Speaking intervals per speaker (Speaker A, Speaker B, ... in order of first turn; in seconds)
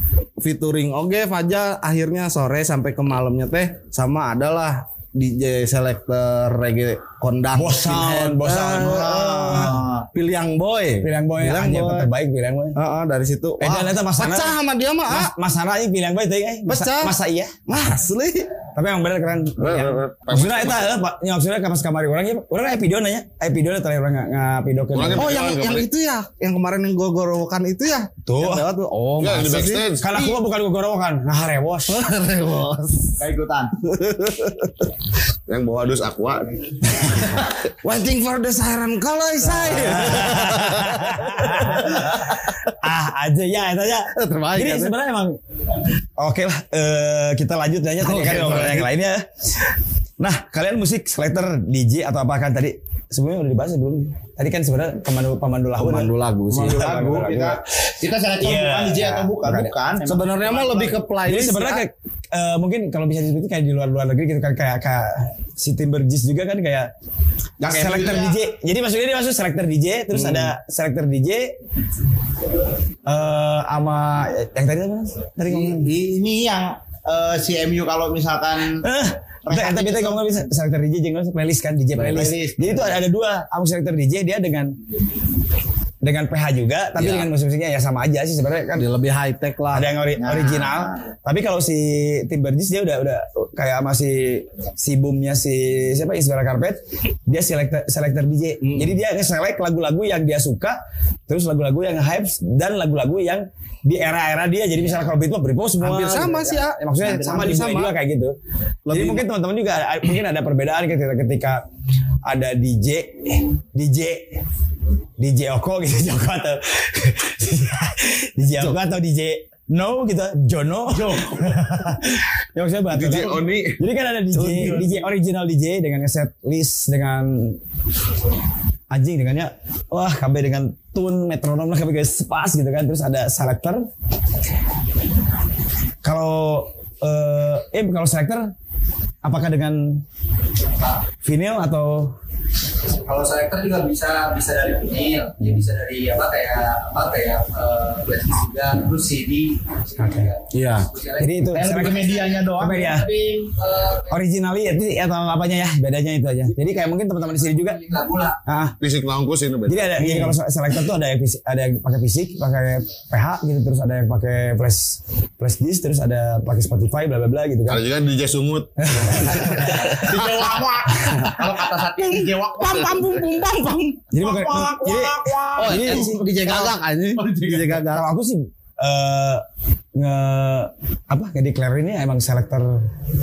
Speaker A: 0.4-12.1, 12.8-15.3, 16.7-17.1, 17.7-18.5, 25.1-30.4, 31.9-33.2, 33.8-34.7, 37.8-42.3, 44.1-44.9, 48.0-48.9, 55.8-57.2, 60.1-61.9, 70.1-70.5, 87.0-87.3, 88.8-89.9, 98.6-98.9, 105.8-107.9, 108.9-109.2, 124.3-124.9, 150.5-150.9, 160.0-160.3, 172.0-174.1, 175.6-178.1
Speaker B: 7.5-9.8, 11.0-12.8, 13.6-14.6, 15.1-17.6, 18.8-25.3, 28.3-28.7, 30.0-32.0, 39.5-45.4, 46.2-49.7, 50.2-57.6, 58.4-59.7, 61.3-66.9, 67.7-71.5, 73.1-75.9, 78.8-84.7, 86.0-88.9, 89.7-108.3, 108.9-111.7, 112.2-114.4, 115.2-127.6, 128.9-133.9, 136.0-138.5, 139.2-140.0, 141.2-142.1, 145.4-145.7, 150.0-150.3, 151.2-152.1, 152.6-153.1, 154.1-157.8, 158.4-158.8, 159.7-167.8, 168.8-170.1, 174.1-176.2, 177.9-179.4, 179.9-182.9
Speaker C: 8.8-10.1, 33.2-33.7, 56.5-61.0, 67.6-68.4, 75.5-78.9, 79.5-80.3, 82.0-83.0, 90.2-91.0, 120.9-121.5, 151.5-153.0, 169.5-173.2, 174.2-177.8
Speaker D: 19.6-20.9, 24.9-25.9, 29.2-30.1, 35.5-37.2, 122.9-123.8, 158.8-160.2, 167.7-169.8
Speaker E: 143.1-154.2, 157.2-158.4